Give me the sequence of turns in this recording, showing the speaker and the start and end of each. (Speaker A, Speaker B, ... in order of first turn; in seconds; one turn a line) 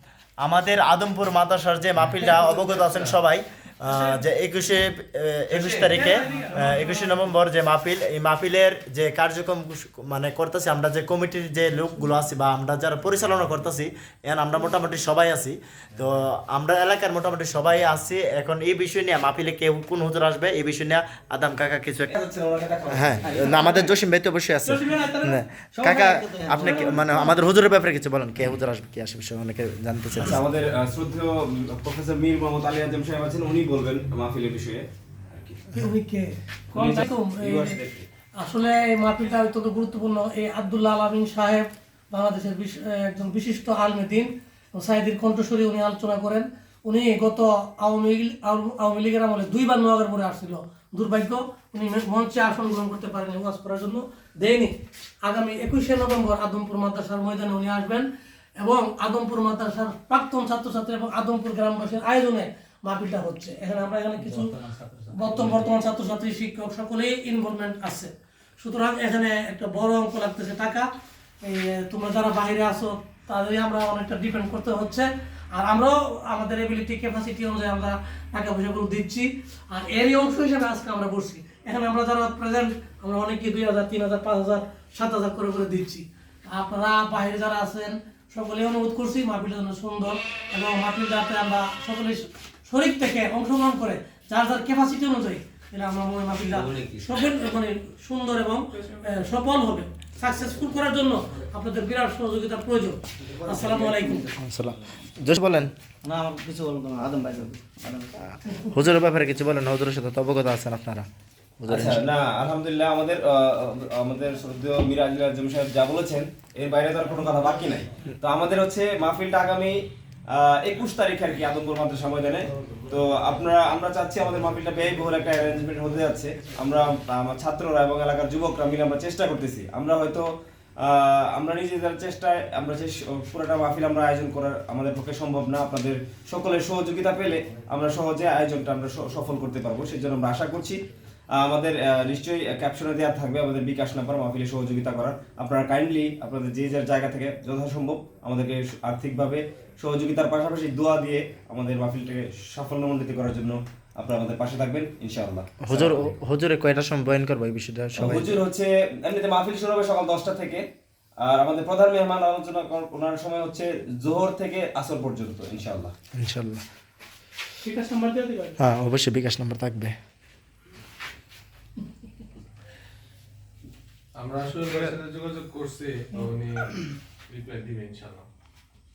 Speaker A: 0.4-22.1
Speaker B: 5.9-7.1
Speaker C: 22.1-23.9
Speaker A: 22.9-30.4
Speaker D: 23.2-23.9
Speaker B: 24.7-25.4
Speaker D: 25.6-27.3
Speaker B: 26.6-27.0
Speaker C: 30.1-35.8
Speaker B: 35.8-37.8
Speaker C: 36.7-38.1
Speaker B: 38.4-58.0
Speaker B: 58.6-64.5
Speaker D: 64.7-65.5
Speaker B: 65.1-70.9
Speaker B: 71.4-104.3
Speaker D: 103.3-104.3
Speaker A: 104.4-105.7
Speaker D: 106.0-108.1
Speaker A: 108.6-111.1
Speaker A: 111.6-112.0
Speaker C: 111.7-130.3
Speaker C: 130.8-140.8
Speaker C: 141.4-156.1
Speaker A: 155.6-158.4
Speaker C: 157.9-160.6
Speaker C: 161.2-165.9
Speaker A: 166.2-166.6
Speaker B: 167.6-168.6
Speaker A: 168.6-169.9
Speaker E: 174.2-176.8
Speaker E: 177.3-178.3